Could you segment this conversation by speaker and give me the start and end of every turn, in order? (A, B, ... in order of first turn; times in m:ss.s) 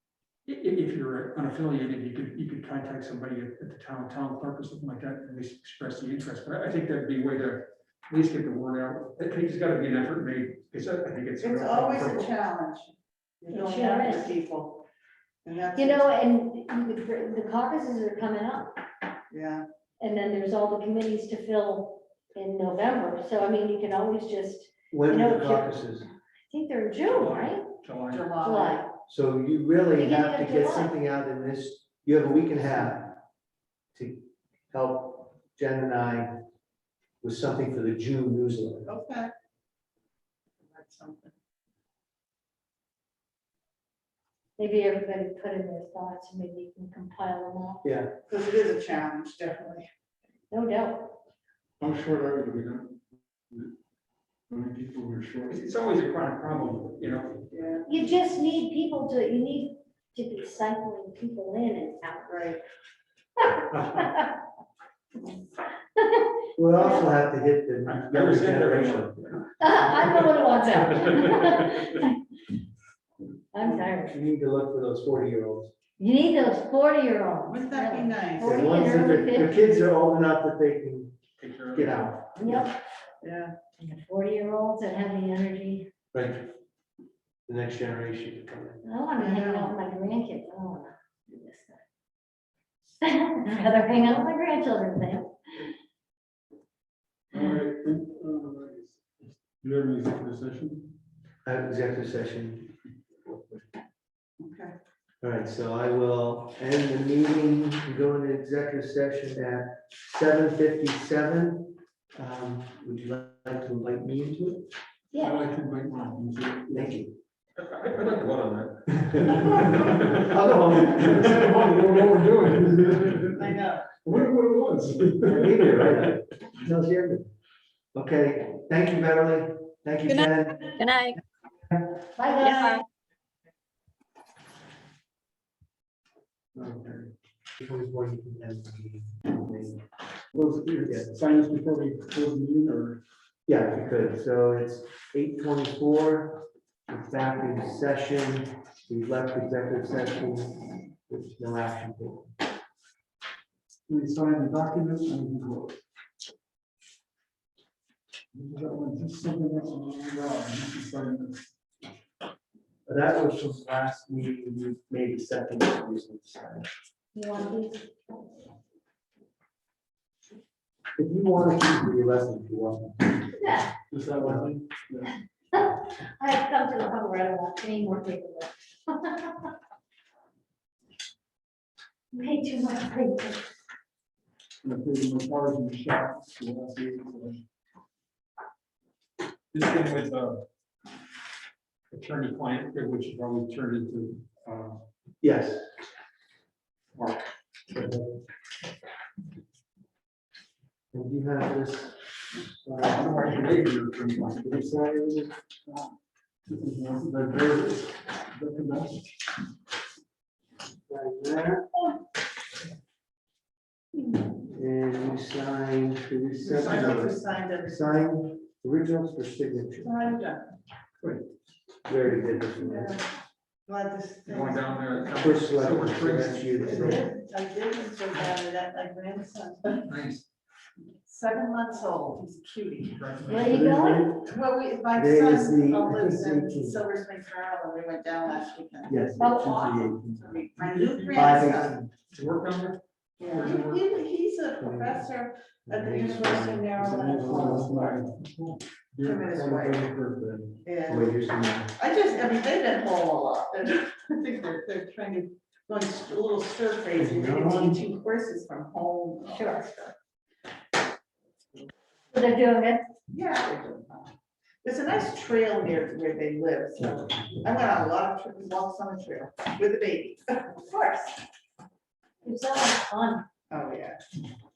0:00.4-0:12.3 A
0:11.4-0:14.8 B
0:13.5-0:14.4 C
0:15.4-0:16.2 B
0:15.7-0:18.8 C
0:19.3-0:19.6 B
0:20.0-0:25.7 C
0:24.9-0:26.0 D
0:26.5-0:27.7 C
0:27.1-0:28.3 A
0:28.1-0:28.8 B
0:28.4-0:28.9 C
0:29.1-0:33.2 D
0:29.9-0:30.9 C
0:33.9-0:36.4 D
0:37.2-0:38.9 D
0:38.9-0:39.3 B
0:40.6-0:41.3 B
0:44.6-0:47.8 C
0:47.8-0:48.1 D
0:48.3-0:49.9 B
0:50.5-0:51.2 C
0:51.8-0:53.0 E
0:54.5-0:55.6 E
0:55.5-0:57.4 A
0:57.5-0:57.8 B
0:57.8-1:02.4 C
1:02.3-1:02.6 B
1:03.4-1:04.3 C
1:06.0-1:07.0 C
1:06.6-1:09.2 D
1:07.8-1:10.1 A
1:09.6-1:12.2 C
1:13.5-1:14.2 C
1:13.6-1:15.7 D
1:16.0-1:19.6 C
1:17.4-1:18.6 B
1:18.4-1:21.2 D
1:21.4-1:22.2 A
1:21.7-1:22.7 D
1:22.4-1:22.7 C
1:23.2-1:23.6 B
1:23.8-1:25.9 C
1:26.1-1:26.5 D
1:27.5-1:28.8 D
1:28.8-1:31.8 C
1:29.2-1:29.8 B
1:33.0-1:35.3 C
1:37.3-1:38.9 E
1:39.6-1:40.9 E
1:41.4-1:42.7 D
1:43.3-1:43.6 D
1:44.4-1:44.7 B
1:45.2-1:54.6 D
1:55.2-1:56.9 E
1:56.7-1:57.1 D
1:57.6-2:00.3 A
1:59.0-2:01.6 D
1:59.4-1:59.9 E
2:00.9-2:03.4 E
2:03.2-2:04.0 B
2:04.0-2:06.0 E
2:05.2-2:07.3 D
2:07.9-2:10.7 D
2:10.8-2:11.1 C
2:12.2-2:12.8 C
2:16.6-2:17.0 D
2:17.6-2:19.8 D
2:20.3-2:23.0 E
2:20.9-2:21.1 D
2:23.5-2:32.3 D
2:33.9-2:35.8 E
2:38.3-2:41.4 E
2:42.8-2:46.7 D
2:47.1-2:47.9 C
2:51.0-2:53.2 D
2:53.4-2:53.7 C
2:53.9-2:55.1 E
2:54.2-2:54.5 D
2:55.5-2:59.5 C
3:02.1-3:03.5 C
3:04.6-3:07.4 E
3:09.5-3:10.4 A
3:11.9-3:14.8 A
3:15.2-3:15.6 D
3:16.9-3:17.2 A
3:17.7-3:18.0 D
3:20.9-3:23.2 D
3:22.8-3:24.5 A
3:24.4-3:25.9 E
3:26.4-3:29.1 E
3:30.9-3:31.7 D
3:34.4-3:39.9 D
3:36.4-3:37.9 B
3:39.8-3:40.4 B
3:41.8-3:43.0 D
3:42.6-3:43.0 B
3:43.6-3:44.8 B
3:44.3-3:47.0 A
3:45.2-3:47.0 D
3:46.6-3:49.8 B
3:49.7-3:50.2 A
3:51.0-3:53.0 B
3:52.9-3:54.1 A
3:53.3-3:54.1 C
3:53.5-3:54.1 D
3:54.1-4:01.8 B
3:54.9-3:56.8 D
3:58.9-3:59.5 D
3:59.2-4:00.1 E
3:59.2-3:59.6 C
4:00.6-4:01.5 A
4:01.1-4:01.9 D
4:02.1-4:03.8 A
4:03.2-4:08.0 B
4:04.6-4:05.1 D
4:05.7-4:07.7 D
4:06.8-4:09.2 E
4:09.0-4:09.9 B
4:09.3-4:11.7 D
4:09.8-4:10.1 E
4:10.6-4:11.2 B
4:11.8-4:19.9 B
4:17.0-4:17.8 D
4:19.3-4:19.7 C
4:22.1-4:22.8 C
4:23.1-4:31.2 B
4:32.2-4:33.2 C
4:33.5-4:34.0 B